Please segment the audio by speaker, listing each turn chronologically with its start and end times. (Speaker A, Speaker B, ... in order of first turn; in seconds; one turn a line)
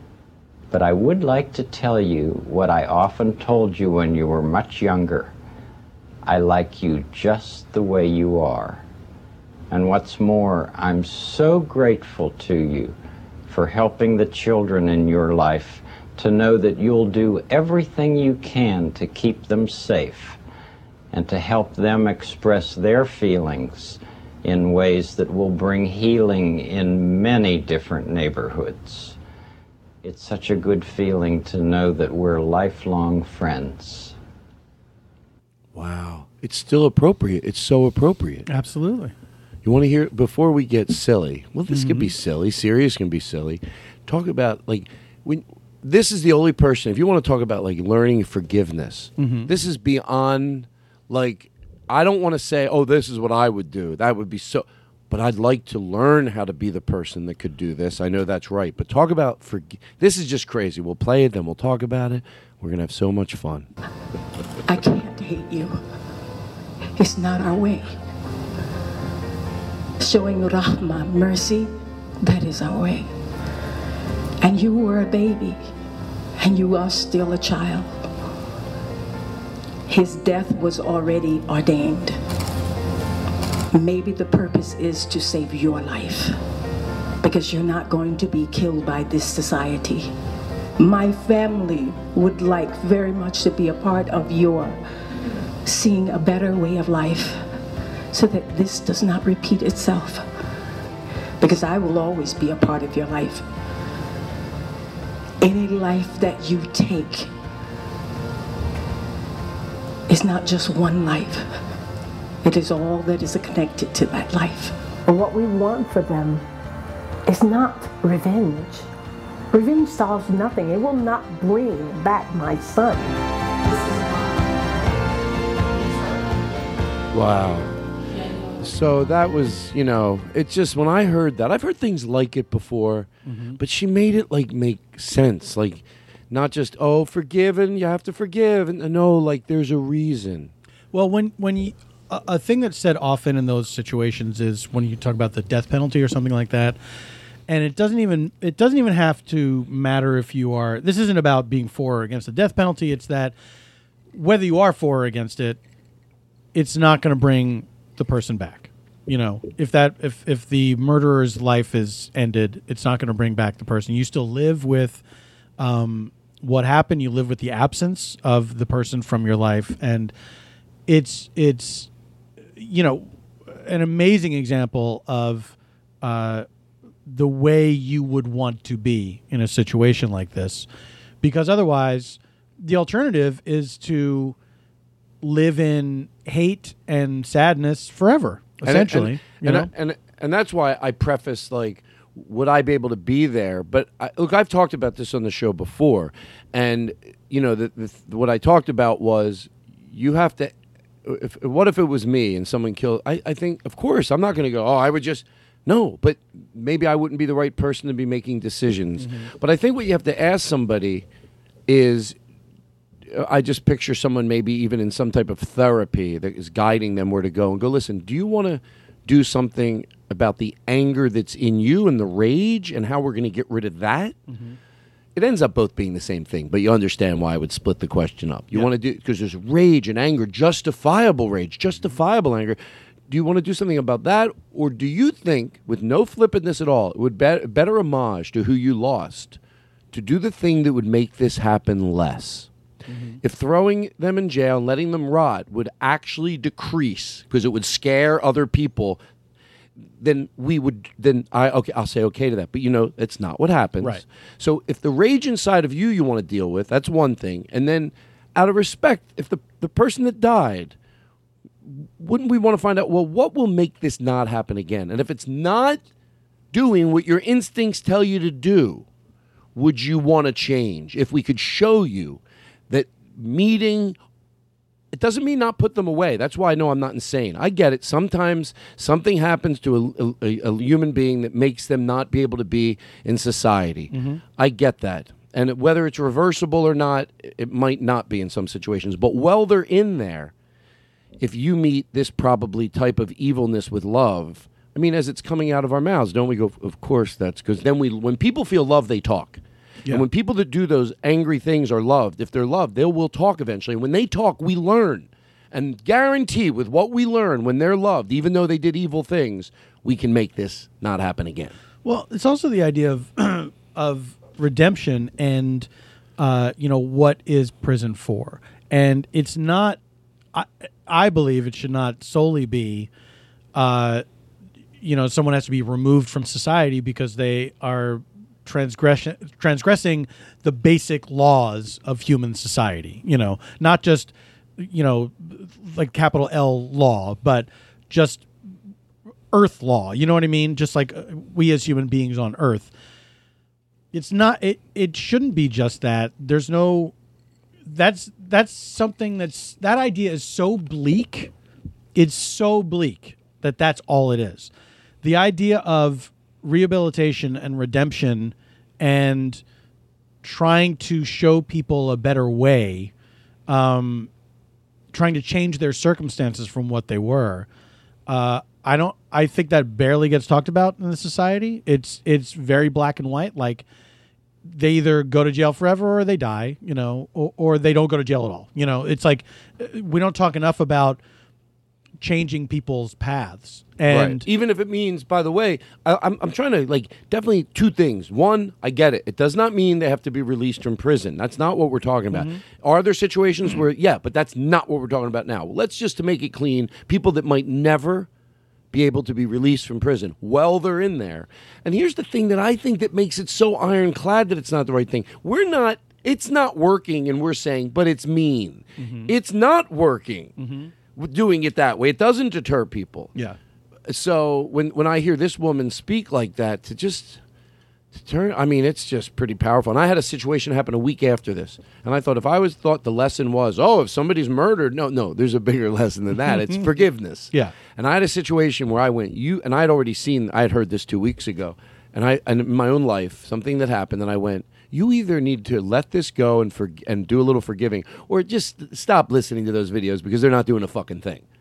Speaker A: 0.7-5.3
Speaker A: 6.2-8.8
Speaker A: 9.7-13.0
Speaker A: 13.5-20.4
Speaker A: 21.1-29.2
Speaker A: 30.0-34.2
Speaker B: 35.7-38.5
Speaker C: 38.5-39.1
Speaker B: 39.6-63.7
Speaker C: 41.7-42.1
Speaker C: 49.2-49.5
Speaker D: 64.7-65.8
Speaker D: 67.0-68.0
Speaker D: 70.0-73.1
Speaker D: 74.4-75.6
Speaker D: 76.4-77.9
Speaker D: 79.9-82.2
Speaker D: 83.7-86.4
Speaker D: 87.2-90.1
Speaker D: 90.8-94.8
Speaker D: 95.7-97.5
Speaker D: 98.1-100.3
Speaker D: 101.4-103.5
Speaker D: 105.4-107.3
Speaker D: 110.1-111.5
Speaker D: 112.4-114.8
Speaker E: 115.1-116.5
Speaker E: 117.2-118.9
Speaker E: 119.5-123.2
Speaker B: 127.1-127.7
Speaker B: 128.6-140.5
Speaker C: 133.2-133.6
Speaker C: 140.9-146.8
Speaker C: 147.5-153.4
Speaker C: 154.1-155.6
Speaker C: 156.5-165.0
Speaker C: 165.6-170.1
Speaker C: 170.9-171.9
Speaker C: 172.6-176.5
Speaker C: 177.1-180.7
Speaker C: 181.2-184.4
Speaker C: 185.2-189.7
Speaker B: 188.6-200.5
Speaker B: 201.0-211.1
Speaker C: 209.0-209.3
Speaker B: 211.7-212.2
Speaker B: 213.1-224.2
Speaker C: 224.3-224.6
Speaker B: 225.2-239.4
Speaker B: 239.9-242.5
Speaker C: 242.9-243.2
Speaker B: 243.2-249.0
Speaker B: 250.0-260.8
Speaker B: 261.6-265.8
Speaker B: 266.5-268.9
Speaker B: 269.6-274.0
Speaker B: 274.9-290.3
Speaker C: 283.9-284.2
Speaker B: 291.2-311.6
Speaker C: 311.8-319.8
Speaker C: 320.3-322.9
Speaker C: 323.5-324.0
Speaker C: 324.8-338.3
Speaker C: 339.3-342.7
Speaker C: 343.9-346.9
Speaker C: 347.7-351.3
Speaker C: 352.0-354.5
Speaker C: 355.0-359.4
Speaker C: 360.2-362.9
Speaker C: 363.5-364.1
Speaker C: 364.9-367.5
Speaker C: 368.1-373.6
Speaker C: 374.4-381.0
Speaker C: 382.0-384.2
Speaker B: 383.9-398.1
Speaker C: 392.1-392.4
Speaker B: 398.7-410.3
Speaker C: 408.8-409.1
Speaker C: 410.4-410.7
Speaker B: 410.9-413.1
Speaker B: 413.9-417.2
Speaker B: 417.9-441.2
Speaker C: 426.2-426.8